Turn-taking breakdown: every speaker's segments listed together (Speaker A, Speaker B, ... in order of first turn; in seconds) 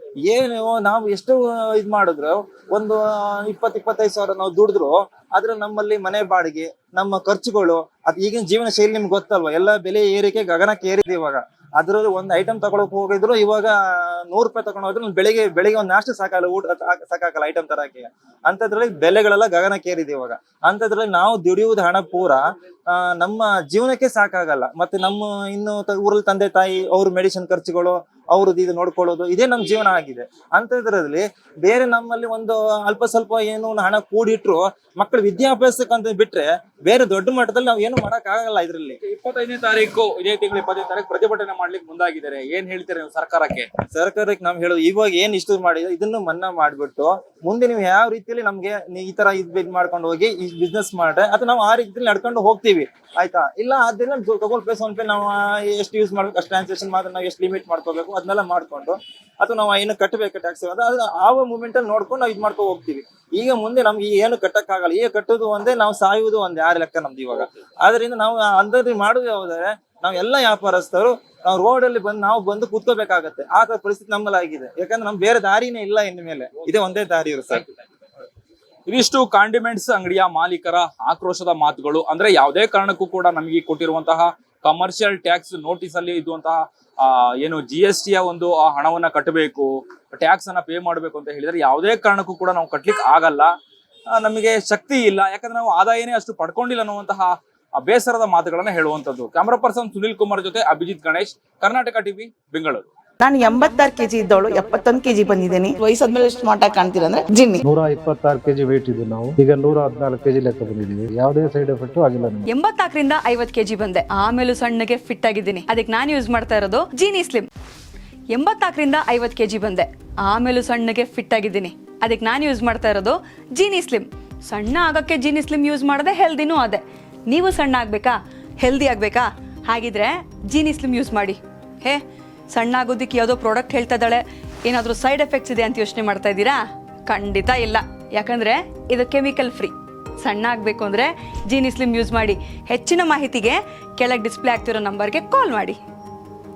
Speaker A: 0.2-39.0, 43.9-77.6
Speaker B: 39.0-43.7, 78.9-93.5, 94.1-102.9
Speaker C: 103.2-107.6
Speaker D: 107.6-112.5
Speaker E: 112.5-117.5, 118.3-145.8